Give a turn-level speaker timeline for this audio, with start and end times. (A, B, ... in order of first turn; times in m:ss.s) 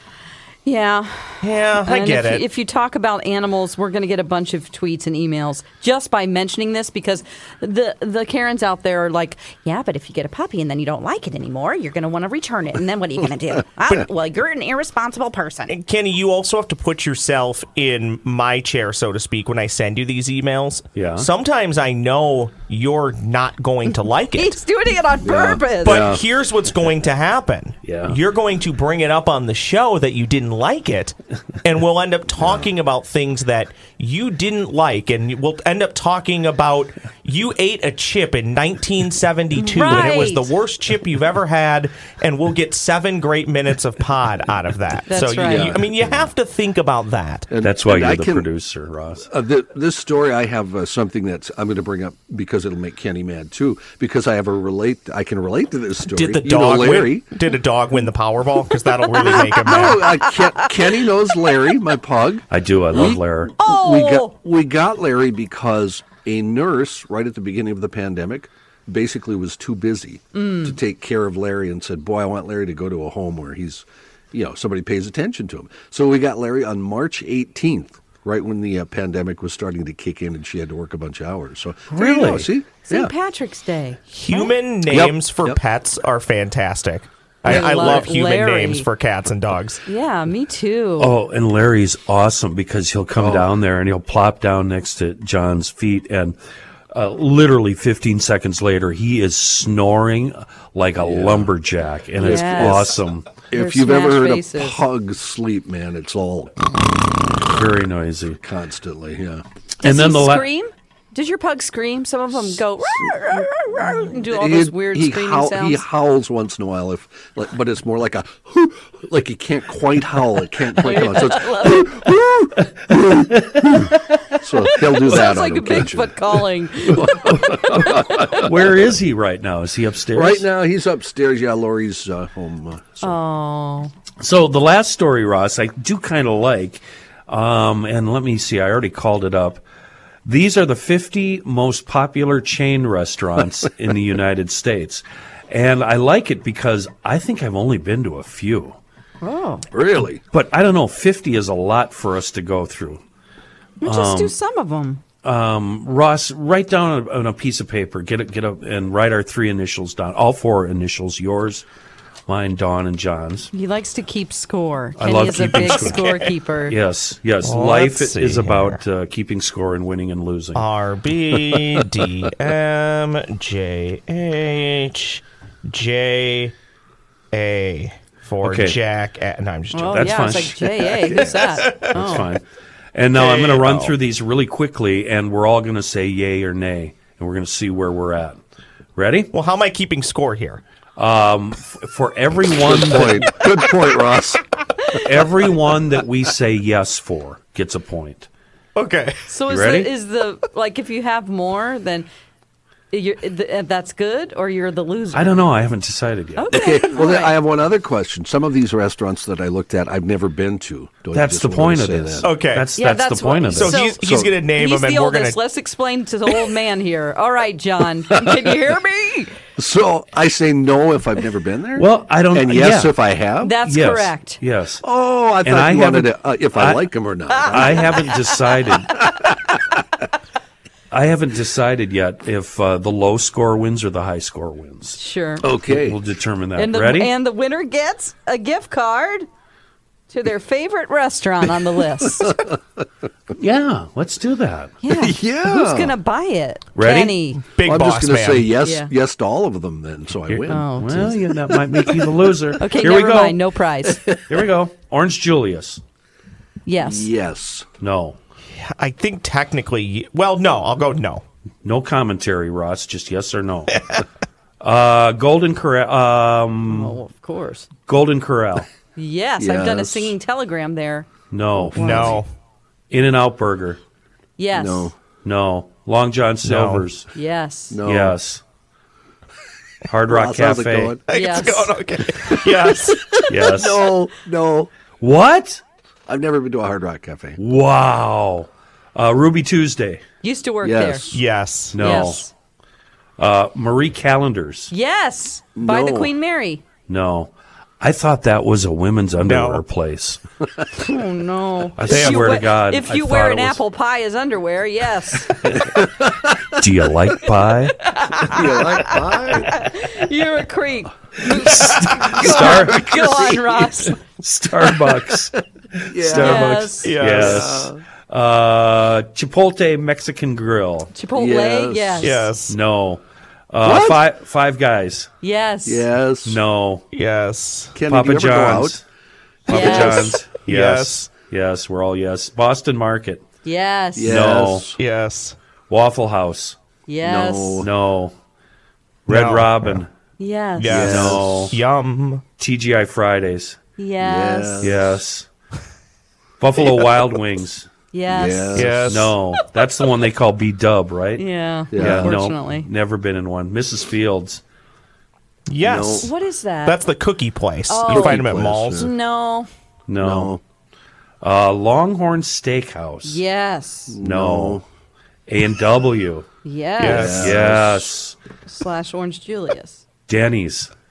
0:00.6-0:15.7 A
0:01.4-0:02.4 B
0:15.7-0:24.6 B
0:20.9-0:21.3 C
0:24.3-0:26.2 A
0:25.2-0:26.2 D
0:25.8-0:47.5 B
0:27.8-0:28.2 C
0:39.6-0:40.5 A
0:45.1-0:45.8 A
0:45.4-0:45.7 C
0:45.4-0:45.7 D
0:47.5-0:48.5 D
0:47.6-0:49.3 C
0:49.2-0:57.3 D
0:56.1-1:00.3 B
0:59.2-1:00.7 A
0:59.3-1:23.1 D
1:02.5-1:03.5 C
1:03.6-1:04.3 A
1:10.3-1:10.8 A
1:21.9-1:22.5 C
1:22.9-1:24.5 A
1:24.1-1:29.8 B
1:24.8-1:25.6 D
1:27.4-1:28.9 A
1:29.8-1:31.1 A
1:31.0-1:36.4 C
1:33.2-1:33.5 D
1:36.9-1:43.3 C
1:41.0-1:41.5 D
1:42.2-1:47.0 D
1:42.2-1:43.0 A
1:43.5-1:44.8 A
1:47.4-1:48.4 C
1:48.4-1:49.4 D
1:49.8-1:50.5 C
1:49.8-1:55.8 A
1:54.2-2:08.7 D
2:00.8-2:02.0 A
2:03.3-2:04.4 C
2:04.6-2:08.4 A
2:08.3-2:10.5 C
2:10.1-2:13.2 D
2:13.0-2:13.9 A
2:14.2-2:19.6 C
2:20.2-2:28.8 C
2:29.2-2:29.6 A
2:29.7-2:30.2 D
2:30.3-2:33.0 C
2:33.8-2:35.0 A
2:33.8-2:34.3 C
2:35.2-2:41.6 C
2:42.3-2:43.5 C
2:43.5-2:46.8 A
2:45.0-2:50.6 C
2:45.6-2:46.3 B
2:47.4-2:48.8 B
2:50.5-2:56.5 B
2:57.3-3:00.3 B
2:58.4-2:58.8 C
2:59.7-3:02.3 A
2:59.9-3:00.7 C
3:00.8-3:01.3 D
3:01.6-3:01.9 B
3:01.7-3:08.4 C
3:03.1-3:03.9 B
3:09.0-3:09.3 C
3:09.3-3:10.6 B
3:11.0-3:13.7 C
3:12.5-3:14.4 D
3:14.9-3:18.3 C
3:18.8-3:19.2 B
3:19.3-3:22.1 A
3:19.5-3:19.9 C
3:22.9-3:25.5 A
3:25.1-3:26.5 C
3:26.4-3:27.3 A
3:26.5-3:32.3 D
3:31.1-3:33.8 C
3:32.2-3:32.7 B
3:32.8-3:34.0 A
3:33.5-3:35.4 B
3:34.0-3:34.4 D
3:34.6-3:39.4 A
3:38.1-3:38.5 D
3:39.6-3:43.6 D
3:41.8-3:43.0 C
3:43.4-3:44.4 A
3:43.6-3:44.8 C
3:44.8-3:48.2 D
3:45.4-3:49.1 C
3:48.9-3:49.8 D
3:50.9-3:55.0 C
3:55.0-3:55.4 A
3:55.4-3:56.0 D
3:55.6-3:57.1 C
3:56.6-3:59.3 A
4:00.1-4:02.4 A
4:02.0-4:02.6 D
4:03.3-4:04.7 C
4:04.8-4:07.4 A
4:04.9-4:05.9 D
4:06.8-4:07.1 C
4:06.8-4:08.5 B
4:07.6-4:12.2 D
4:08.6-4:08.9 A
4:10.3-4:13.4 C
4:10.5-4:11.1 A
4:12.6-4:14.0 A
4:13.9-4:14.4 D
4:14.1-4:15.8 C
4:16.6-4:17.1 A
4:16.8-4:17.7 D
4:17.8-4:18.2 C
4:18.5-4:21.2 B
4:21.6-4:24.0 C
4:24.6-4:27.0 C
4:26.7-4:27.7 A
4:27.9-4:28.7 C
4:29.0-4:31.1 A
4:29.4-4:30.1 D
4:31.3-4:32.2 C
4:31.7-4:32.2 A
4:31.7-4:32.3 B
4:32.9-4:33.8 C
4:34.4-4:34.9 A
4:34.5-4:35.0 D
4:35.2-4:37.1 C
4:36.4-4:36.8 B
4:37.1-4:37.8 A
4:37.7-4:38.2 D
4:37.8-4:38.4 C
4:39.9-4:41.0 C
4:40.0-4:41.0 D
4:41.1-4:43.3 B
4:41.1-4:41.8 A
4:42.3-4:44.7 D
4:43.3-4:43.9 C
4:45.0-4:45.6 C
4:46.1-4:47.4 D
4:47.4-4:50.0 C
4:50.2-4:51.0 A
4:50.6-4:51.2 D
4:51.1-4:52.1 B
4:51.7-4:52.2 C
4:51.8-4:52.3 A
4:53.2-4:54.7 C
4:54.7-4:56.6 A
4:55.6-4:56.1 D
4:56.9-5:00.2 C
4:59.2-4:59.6 B
5:00.7-5:05.7 A
5:01.8-5:03.6 C
5:01.9-5:02.3 B
5:05.4-5:05.8 C
5:05.5-5:06.6 D
5:06.5-5:07.8 C
5:07.8-5:14.0 A
5:08.2-5:09.7 D
5:11.2-5:13.1 C
5:12.0-5:13.7 D
5:14.0-5:20.9 C
5:14.8-5:15.2 D
5:15.9-5:17.8 D
5:16.1-5:17.0 A
5:16.8-5:17.6 B
5:20.9-5:22.3 A
5:21.1-5:22.1 D
5:22.0-5:22.5 B
5:22.4-5:25.1 C
5:23.6-5:24.0 D
5:25.2-5:25.9 A
5:25.6-5:26.4 D
5:26.2-5:26.9 C
5:26.9-5:27.8 B
5:27.7-5:28.8 D
5:27.9-5:28.8 C
5:29.5-5:30.2 D
5:29.5-5:33.2 C
5:29.5-5:30.1 A
5:29.5-5:31.1 B
5:33.4-5:34.1 A
5:33.9-5:34.8 D
5:34.0-5:34.7 C
5:34.8-5:35.4 B
5:35.7-5:36.6 C
5:36.9-5:37.6 A
5:37.0-5:37.7 D
5:37.6-5:38.1 C
5:39.0-5:39.9 C
5:39.1-5:39.8 B
5:40.2-5:40.9 A
5:40.6-5:42.2 B
5:40.7-5:41.5 D
5:40.7-5:41.5 C
5:42.4-5:43.6 C
5:43.8-5:44.7 A
5:44.0-5:45.0 D
5:44.6-5:45.3 C
5:46.4-5:47.7 C
5:46.6-5:47.0 D
5:47.9-5:48.8 A
5:48.1-5:49.1 D
5:48.5-5:49.2 B
5:48.8-5:54.4 C
5:51.2-5:52.7 A
5:51.7-5:52.1 D
5:55.5-5:56.1 B
5:55.6-5:56.1 D
5:56.0-5:56.8 A
5:56.6-5:58.9 B
5:57.7-5:59.5 A
5:57.9-5:58.9 D
5:59.9-6:00.3 C
6:00.0-6:00.4 D
6:01.2-6:03.2 C
6:03.0-6:04.0 A
6:03.9-6:04.6 D
6:04.0-6:04.6 C
6:05.3-6:06.3 C
6:06.4-6:07.3 A
6:06.8-6:07.3 B
6:06.8-6:08.2 C
6:06.9-6:08.0 D
6:08.5-6:09.8 A
6:10.1-6:10.7 C